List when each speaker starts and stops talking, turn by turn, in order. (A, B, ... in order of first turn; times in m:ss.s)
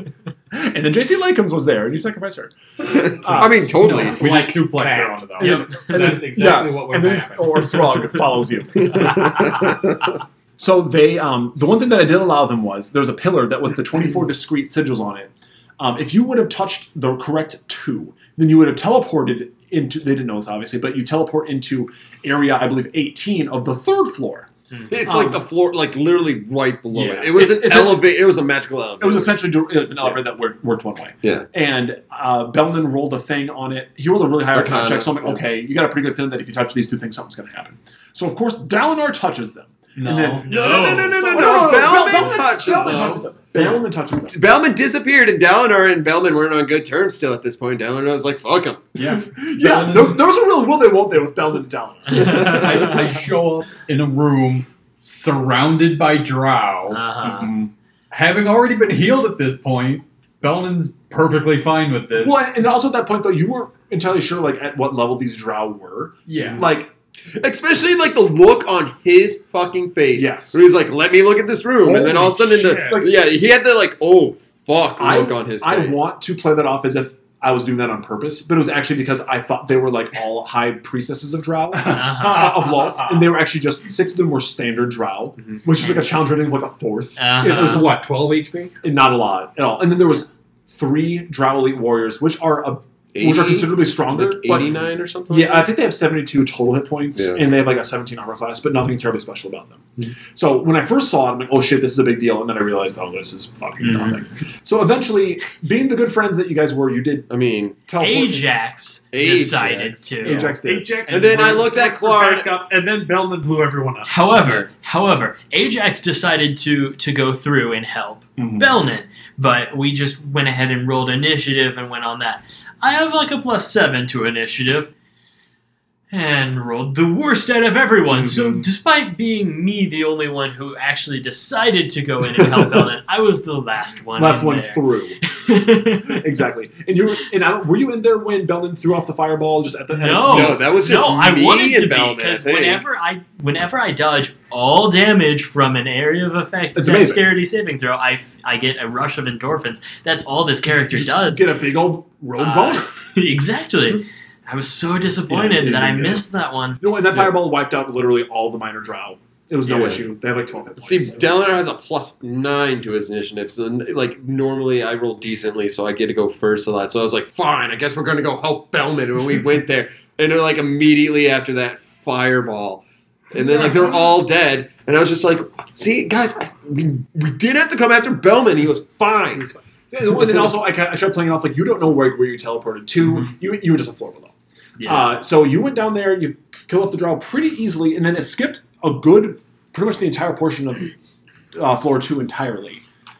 0:00.5-0:04.1 A
0:02.8-0:04.2 B
0:03.7-0:05.7 C
0:03.8-0:08.0 D
0:05.4-0:09.8 A
0:08.8-0:09.9 B
0:10.6-0:24.5 A
0:24.9-0:29.4 B
0:25.0-0:25.4 A
0:26.9-0:28.2 A
0:29.0-0:40.5 A
0:34.5-0:35.4 B
0:40.0-0:40.4 C
0:40.4-0:41.7 E
0:40.4-0:48.9 B
0:41.0-0:44.4 A
0:42.6-0:43.1 E
0:49.0-0:50.2 C
0:49.0-0:53.0 A
0:52.1-0:53.1 E
0:52.1-1:02.5 C
0:56.9-0:57.5 E
1:02.1-1:06.9 A
1:06.3-1:06.7 C
1:07.2-1:16.1 B
1:10.1-1:10.7 A
1:11.8-1:13.1 A
1:12.0-1:13.0 F
1:15.0-1:28.0 A
1:21.8-1:22.8 E
1:22.2-1:23.2 D
1:27.2-1:27.9 E
1:27.4-1:28.7 D
1:28.8-1:47.3 A
1:33.1-1:35.7 B
1:37.1-1:37.4 B
1:47.3-1:47.8 B
1:47.8-1:48.5 A
1:48.0-1:50.5 E
1:49.1-1:50.4 B
1:50.2-1:51.7 A
1:50.5-1:54.1 F
1:51.1-1:52.5 B
1:54.1-2:04.9 E
2:06.1-2:16.2 E
2:14.2-2:15.2 A
2:16.0-2:20.6 A
2:19.9-2:31.5 E
2:20.2-2:22.8 B
2:26.7-2:27.3 A
2:30.7-2:32.9 A
2:32.4-2:36.8 E
2:35.3-2:36.2 A
2:36.8-2:41.4 A
2:39.6-2:40.0 B
2:40.8-2:59.5 B
2:59.9-3:10.9 A
3:04.8-3:05.1 E
3:11.5-3:12.8 A